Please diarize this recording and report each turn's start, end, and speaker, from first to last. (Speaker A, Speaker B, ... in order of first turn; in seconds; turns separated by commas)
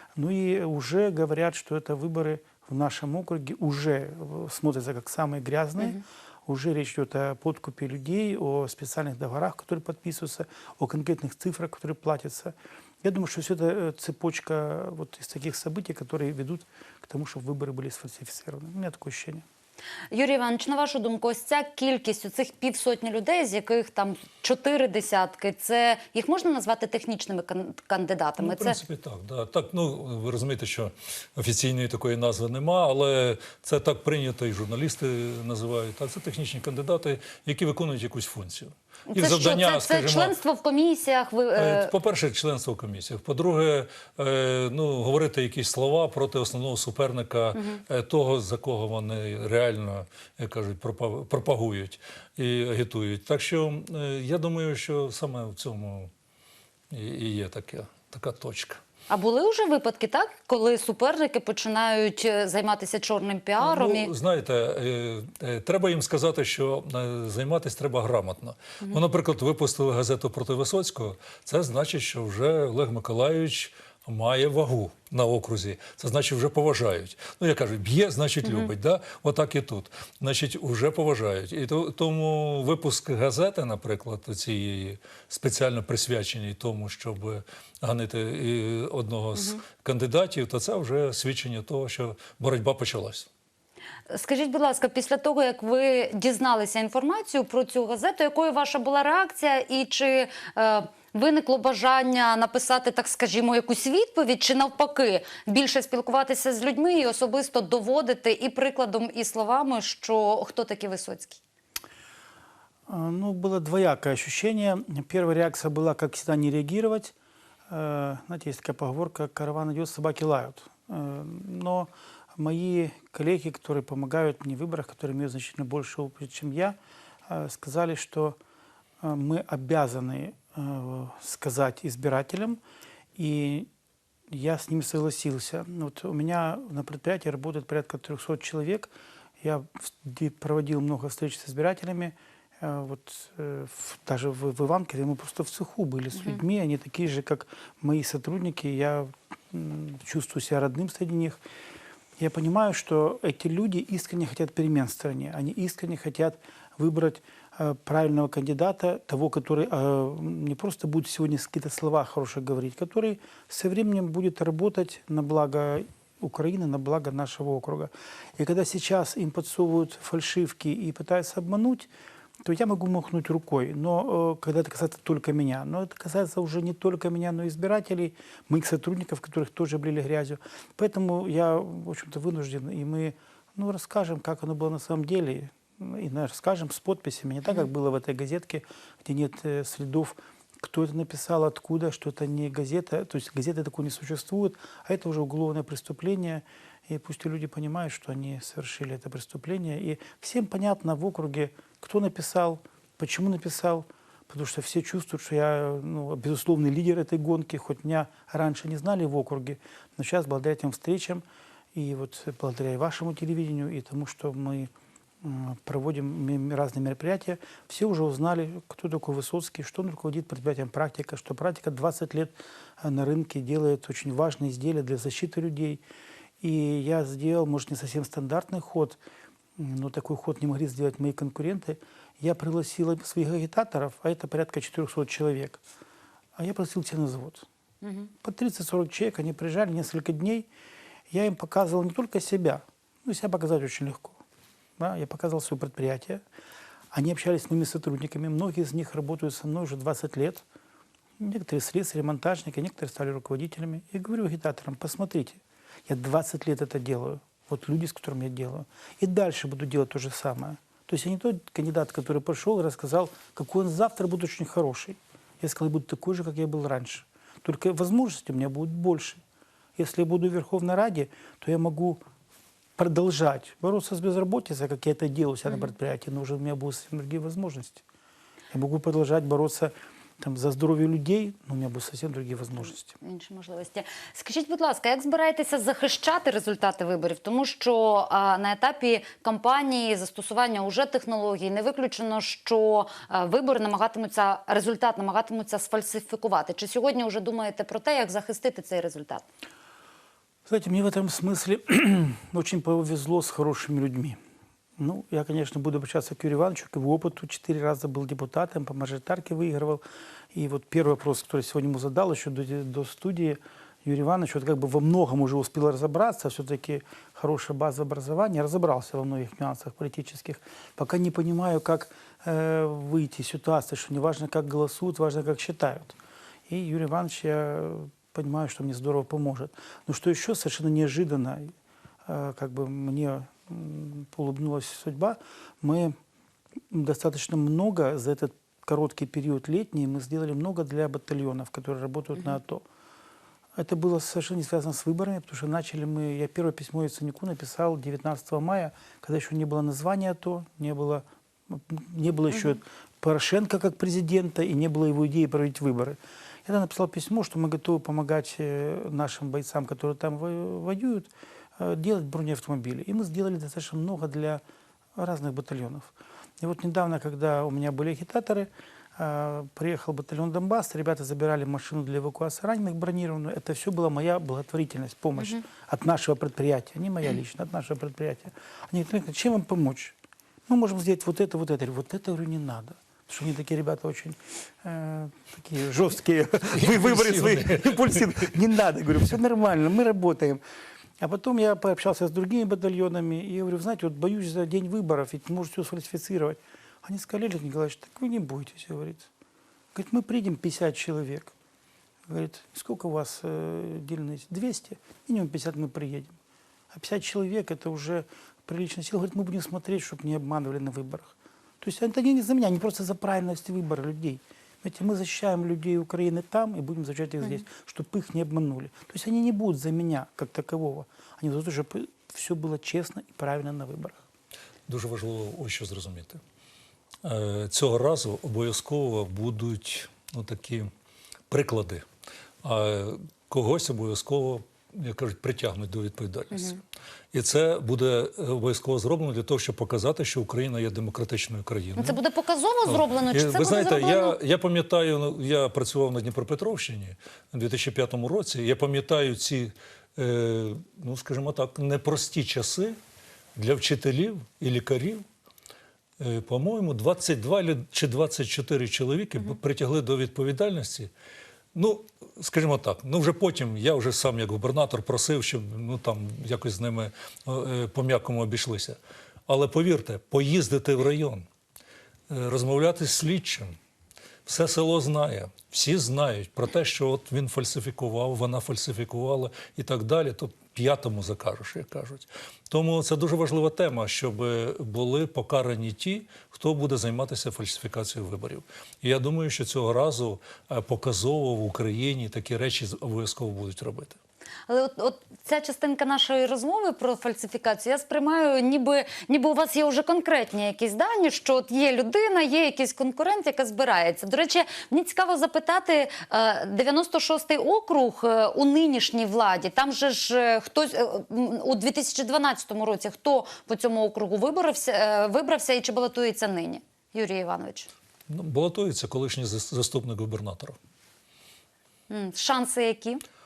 Speaker A: 0.1-19.4, Speaker B: 20.1-28.8, Speaker C: 28.4-40.3, Speaker B: 39.1-41.9, Speaker C: 41.5-56.1, Speaker C: 56.9-58.8, Speaker B: 59.1-64.1, Speaker C: 63.6-93.3, Speaker B: 78.4-78.7, Speaker B: 89.3-89.6, Speaker B: 94.1-111.4, Speaker A: 112.9-117.1, Speaker A: 117.7-128.4, Speaker A: 129.0-132.6, Speaker A: 133.2-133.7, Speaker A: 134.3-151.4, Speaker B: 146.1-146.4, Speaker A: 152.2-171.9, Speaker A: 172.4-214.7, Speaker A: 215.2-225.8, Speaker A: 226.4-229.0, Speaker A: 229.6-235.6, Speaker A: 236.4-237.4, Speaker B: 237.8-238.1, Speaker A: 238.2-240.5, Speaker A: 241.1-244.2, Speaker A: 244.8-246.2, Speaker A: 246.9-250.4, Speaker A: 251.2-269.2, Speaker A: 269.8-272.0, Speaker A: 272.8-277.8, Speaker A: 278.5-282.9, Speaker B: 282.8-299.2, Speaker A: 300.4-304.2, Speaker A: 304.8-309.8, Speaker A: 310.3-326.0, Speaker A: 326.5-331.5, Speaker A: 332.1-335.9, Speaker A: 336.7-342.6, Speaker A: 343.6-364.4, Speaker A: 364.9-379.9, Speaker A: 380.5-390.4, Speaker C: 386.5-388.3, Speaker A: 391.0-399.1, Speaker A: 399.7-401.3, Speaker A: 402.1-406.1, Speaker A: 406.7-424.0, Speaker C: 424.7-426.2, Speaker C: 427.0-430.7, Speaker C: 431.3-431.8, Speaker C: 432.4-436.6, Speaker B: 436.3-436.6, Speaker C: 437.1-442.0, Speaker B: 441.7-444.2, Speaker C: 442.7-452.8, Speaker C: 453.4-455.0, Speaker C: 456.0-460.9, Speaker C: 461.5-471.2, Speaker C: 472.1-473.5, Speaker C: 474.2-494.0, Speaker B: 494.5-517.7, Speaker C: 518.1-520.6, Speaker B: 521.9-523.0